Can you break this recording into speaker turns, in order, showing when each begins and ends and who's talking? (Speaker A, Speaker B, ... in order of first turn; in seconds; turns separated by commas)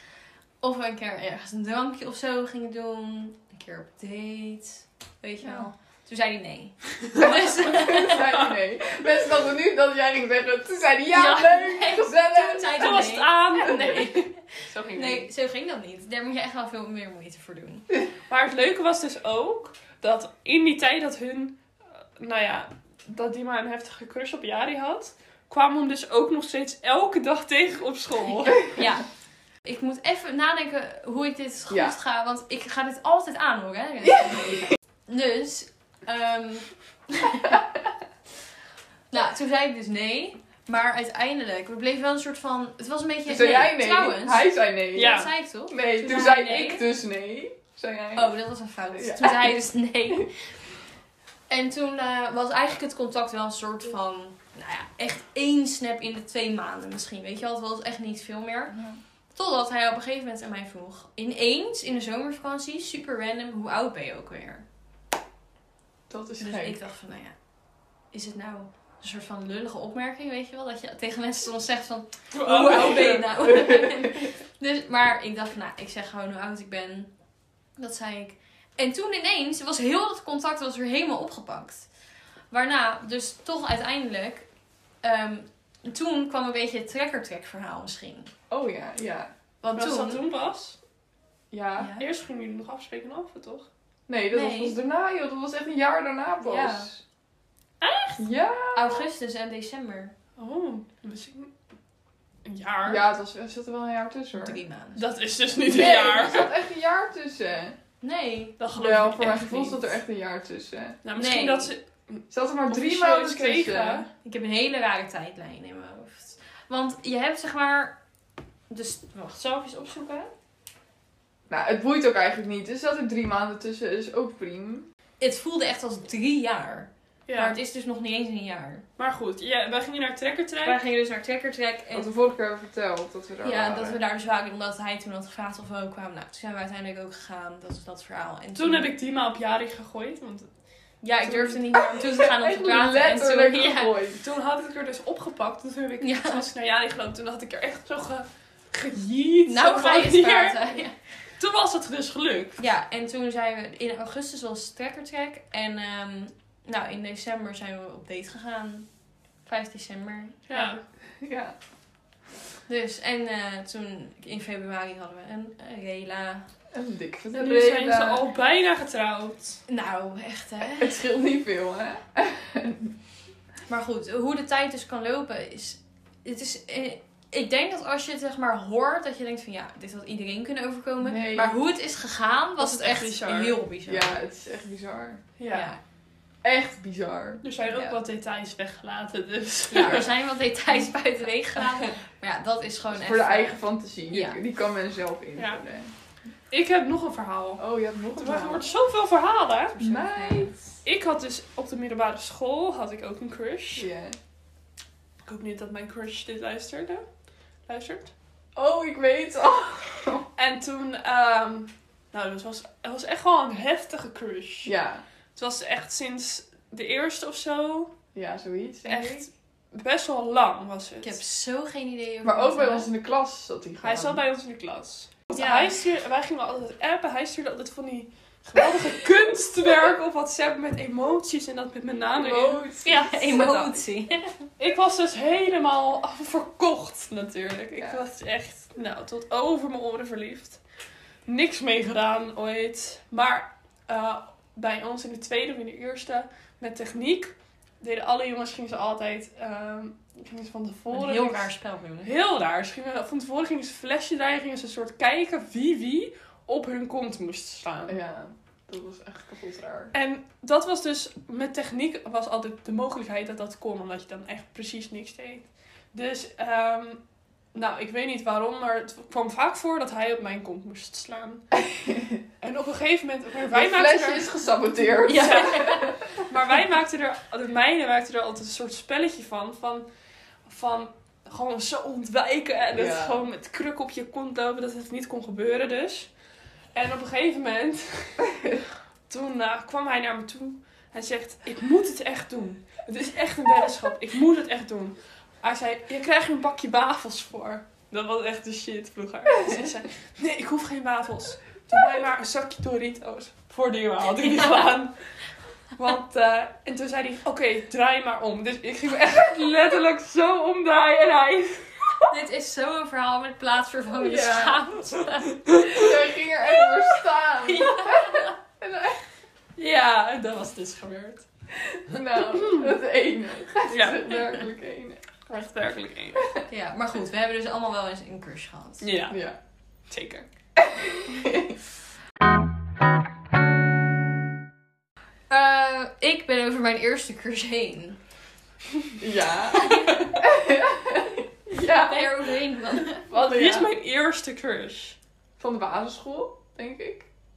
Speaker A: 0.6-8.4, Speaker B: 5.4-5.7, Speaker B: 7.2-14.1, Speaker A: 11.1-17.9, Speaker C: 12.8-15.3, Speaker C: 18.3-28.7, Speaker A: 28.6-29.1, Speaker A: 29.6-37.6, Speaker B: 31.7-32.0, Speaker A: 39.1-46.9, Speaker B: 43.3-48.4, Speaker C: 44.9-45.3, Speaker A: 48.1-50.5, Speaker B: 49.0-49.5, Speaker A: 51.5-58.8, Speaker B: 58.7-59.0, Speaker A: 59.4-64.6, Speaker B: 66.1-66.8, Speaker A: 66.4-67.3, Speaker A: 68.1-77.1, Speaker C: 72.3-73.2, Speaker B: 72.5-74.3, Speaker A: 77.8-81.9, Speaker A: 82.5-84.5, Speaker A: 85.0-88.3, Speaker B: 88.5-89.3, Speaker A: 89.6-90.2, Speaker C: 89.8-90.8, Speaker B: 91.5-91.9, Speaker A: 91.8-92.1, Speaker C: 92.0-93.7, Speaker B: 94.1-97.0, Speaker A: 94.3-94.8, Speaker A: 96.4-96.9, Speaker C: 97.8-98.2, Speaker B: 98.2-99.1, Speaker A: 98.8-100.1, Speaker C: 100.4-101.5, Speaker C: 102.5-103.0, Speaker B: 102.9-104.6, Speaker A: 104.4-105.1, Speaker C: 105.0-106.5, Speaker B: 105.7-107.8, Speaker A: 108.0-108.6, Speaker C: 108.6-109.9, Speaker B: 108.8-111.0, Speaker C: 111.0-114.1, Speaker A: 111.2-111.7, Speaker B: 112.3-114.0, Speaker A: 114.2-118.0, Speaker A: 118.7-120.3, Speaker B: 121.5-124.9, Speaker A: 125.2-128.8, Speaker C: 127.3-127.6, Speaker C: 129.0-130.8, Speaker A: 130.6-132.1, Speaker B: 131.9-134.0, Speaker A: 133.4-138.9, Speaker C: 138.6-140.5, Speaker A: 141.0-143.9, Speaker B: 141.2-144.2, Speaker C: 144.2-150.8, Speaker A: 146.0-146.5, Speaker A: 149.5-150.9, Speaker C: 151.4-152.6, Speaker A: 152.6-158.9, Speaker A: 159.4-160.8, Speaker C: 160.5-160.8, Speaker B: 161.2-161.6, Speaker A: 162.7-166.5, Speaker B: 166.7-168.2, Speaker C: 167.3-169.6, Speaker A: 169.7-171.0, Speaker B: 170.6-173.0, Speaker A: 173.7-184.1, Speaker B: 181.0-181.6, Speaker C: 182.6-183.6, Speaker B: 183.9-185.2, Speaker C: 185.4-185.7, Speaker A: 185.5-185.8, Speaker B: 186.4-187.4, Speaker C: 187.4-190.1, Speaker A: 187.6-188.0, Speaker A: 189.7-194.4, Speaker B: 192.9-195.9, Speaker C: 195.4-195.6, Speaker C: 196.5-199.8, Speaker B: 197.6-198.7, Speaker A: 199.8-200.5, Speaker B: 199.8-200.6, Speaker C: 200.8-203.9, Speaker B: 203.8-204.2, Speaker C: 205.2-207.1, Speaker C: 207.7-208.1, Speaker B: 208.6-210.3, Speaker C: 210.4-214.7, Speaker B: 214.7-215.0, Speaker C: 215.3-217.9, Speaker B: 218.1-219.3, Speaker C: 218.9-221.2, Speaker A: 221.0-222.9, Speaker B: 222.2-224.2, Speaker C: 223.8-233.8, Speaker A: 225.3-225.8, Speaker B: 232.2-233.5, Speaker A: 232.8-234.3, Speaker C: 234.6-240.6, Speaker C: 241.3-251.5, Speaker A: 250.9-252.1, Speaker C: 252.0-258.0, Speaker B: 257.9-259.9, Speaker C: 259.9-271.5, Speaker C: 272.4-274.3, Speaker B: 273.5-276.0, Speaker A: 275.0-275.9, Speaker C: 276.2-279.9, Speaker C: 280.4-286.1, Speaker B: 282.7-283.2, Speaker C: 286.7-288.4, Speaker C: 289.1-305.2, Speaker C: 305.8-312.1, Speaker A: 312.1-315.9, Speaker B: 314.0-314.6, Speaker C: 315.5-315.8, Speaker B: 315.6-319.0, Speaker A: 317.5-318.3, Speaker C: 319.6-321.3, Speaker B: 321.7-325.0, Speaker C: 322.1-322.7, Speaker C: 323.7-324.0, Speaker C: 325.3-326.2, Speaker A: 326.5-328.8, Speaker C: 328.8-329.2, Speaker B: 329.1-329.4, Speaker C: 329.9-330.3, Speaker B: 330.6-331.6, Speaker A: 335.3-338.0, Speaker B: 339.0-343.7, Speaker A: 339.5-340.3, Speaker A: 341.7-343.1, Speaker C: 343.1-345.0, Speaker B: 345.4-347.1